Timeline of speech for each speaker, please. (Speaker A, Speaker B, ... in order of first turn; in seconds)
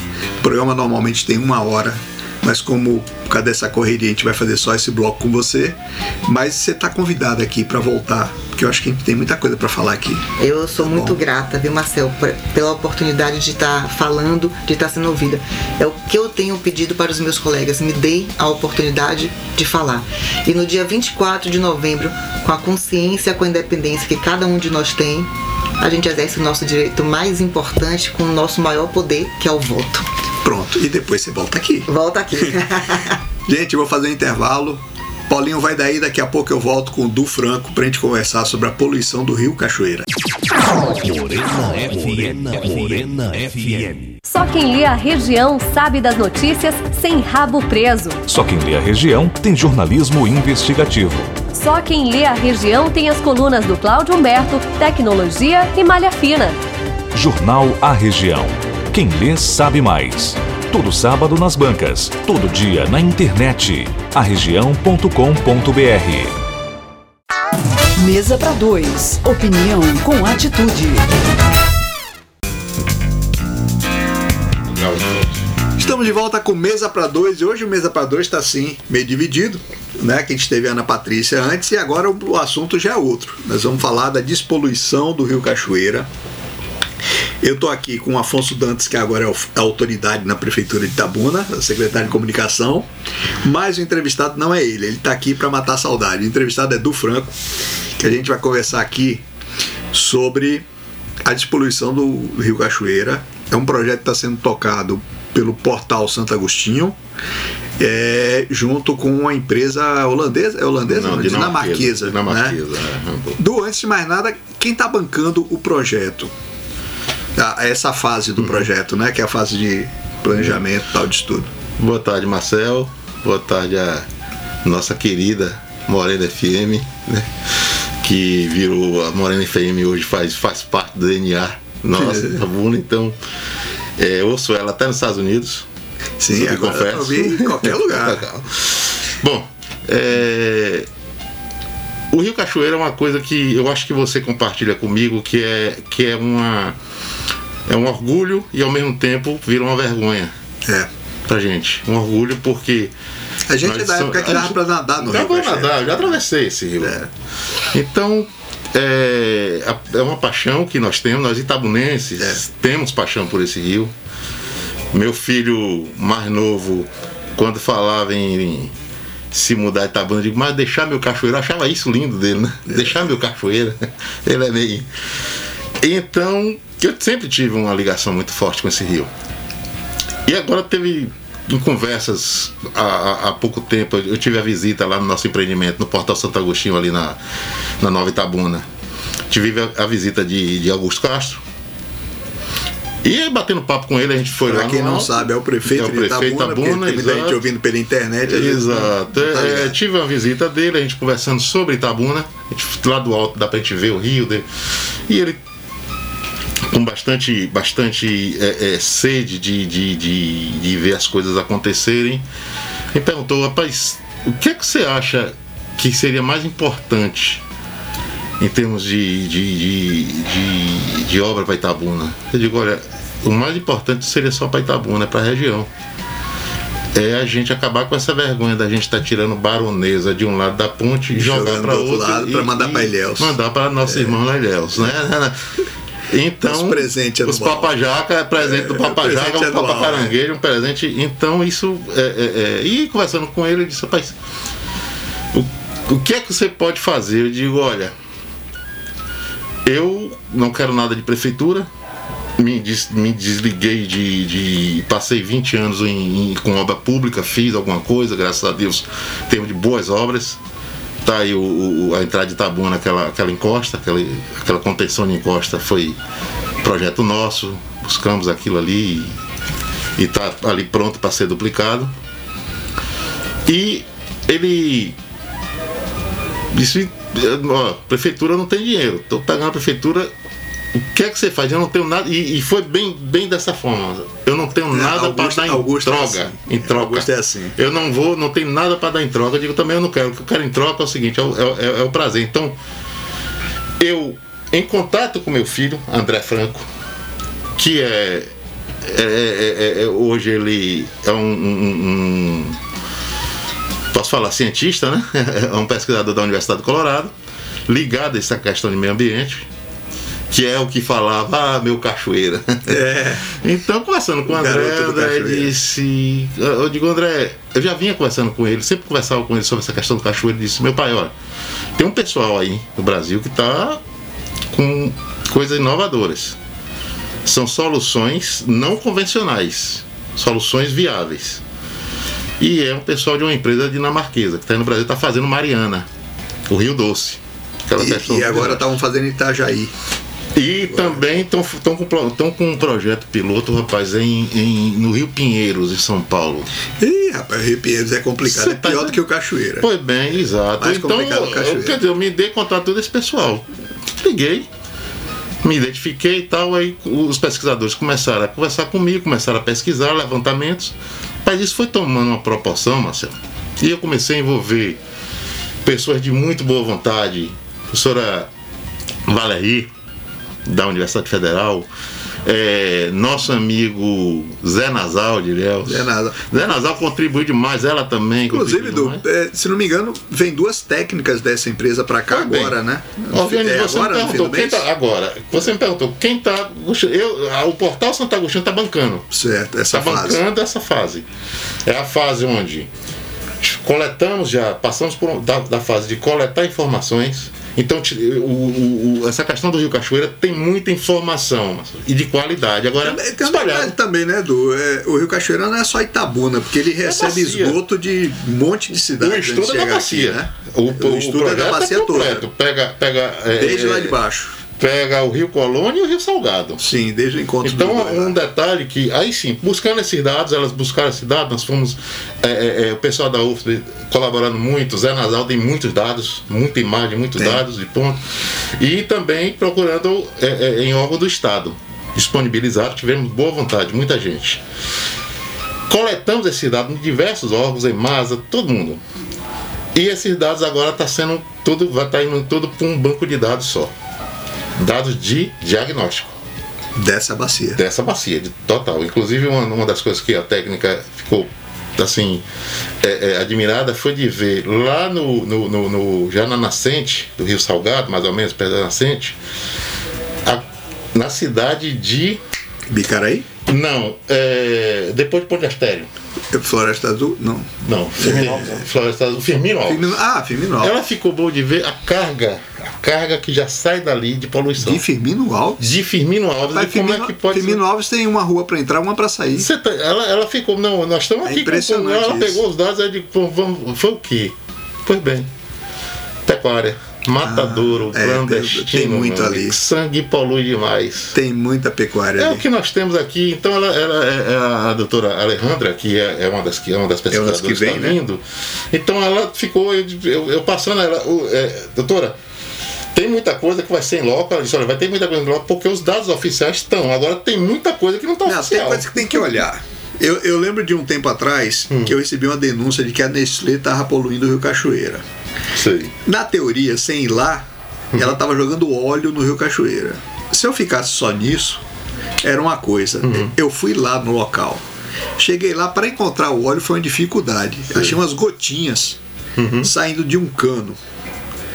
Speaker A: 0.4-10.2, 10.8-11.2, 30.4-31.9, 33.5-40.1, 75.8-86.1, 87.4-92.9, 93.4-97.3, 98.0-99.2, 99.9-100.6, 101.2-107.0, 107.8-112.5, 113.4-116.3, 117.3-121.5, 131.9-132.4, 136.2-138.2, 153.5-156.0, 156.8-157.1, 194.4-199.7, 231.2-234.1, 236.4-237.7, 238.4-240.1, 284.7-287.6, 312.7-313.3, 314.3-315.5, 337.8-339.7, 346.8-349.7, 350.6-351.8, 375.6-376.2, 378.3-384.6, 389.1-390.2, 402.8-412.2, 413.4-414.4, 416.6-418.1, 446.8-447.6, 462.7-463.3, 466.3-468.6, 469.6-470.7, 474.6-475.8, 476.4-479.5, 481.2-482.4, 487.2-489.6, 491.1-492.4, 497.1-498.0, 508.2-515.0, 516.0-521.6, 522.2-524.6, 525.2-529.0, 529.6-530.8
Speaker B: 10.4-30.0, 31.9-33.2
Speaker C: 40.8-44.2, 48.3-51.4, 57.1-66.3
Speaker D: 44.2-48.2, 51.5-56.6
Speaker E: 68.0-71.0
Speaker F: 74.7-75.4, 110.8-113.4, 118.4-118.7, 121.8-124.0, 124.6-127.3, 128.0-133.2, 134.0-135.7, 136.3-140.9, 142.1-146.8, 147.7-150.3, 151.3-152.9, 153.6-157.0, 157.7-163.9, 164.9-168.7, 169.3-174.9, 175.8-179.1, 180.2-187.2, 187.8-188.6, 189.3-191.4, 193.0-197.4, 198.2-204.4, 205.1-205.4, 206.7-212.2, 212.9-217.4, 218.4-225.7, 226.9-235.4, 236.1-244.1, 245.3-247.9, 249.6-251.7, 252.4-260.4, 261.0-266.0, 266.6-269.2, 270.0-271.9, 273.4-274.9, 276.5-280.1, 280.7-292.6, 293.8-296.7, 297.6-298.3, 298.8-302.6, 303.9-307.1, 307.7-309.5, 310.3-321.1, 321.8-323.8, 324.5-326.4, 327.2-331.4, 332.4-335.9, 336.5-338.7, 340.4-346.5, 348.2-349.0, 349.6-353.4, 354.0-354.5, 355.4-364.8, 365.6-368.3, 369.1-369.7, 370.4-371.7, 372.2-379.0, 382.1-382.6, 383.1-389.1, 389.7-391.1, 391.6-392.7, 393.4-403.7, 406.8-407.6, 409.0-414.0, 414.6-416.6, 417.4-428.0, 428.6-434.4, 435.7-438.8, 439.7-443.7, 444.6-446.1, 447.6-452.2, 452.8-459.2, 460.2-462.2, 463.4-465.9, 467.6-470.0, 470.6-474.8, 475.6-477.6, 479.4-485.3, 486.2-491.1, 492.2-502.1, 502.9-509.4, 511.7-511.9, 515.5-515.9, 523.0-523.3, 529.4-529.7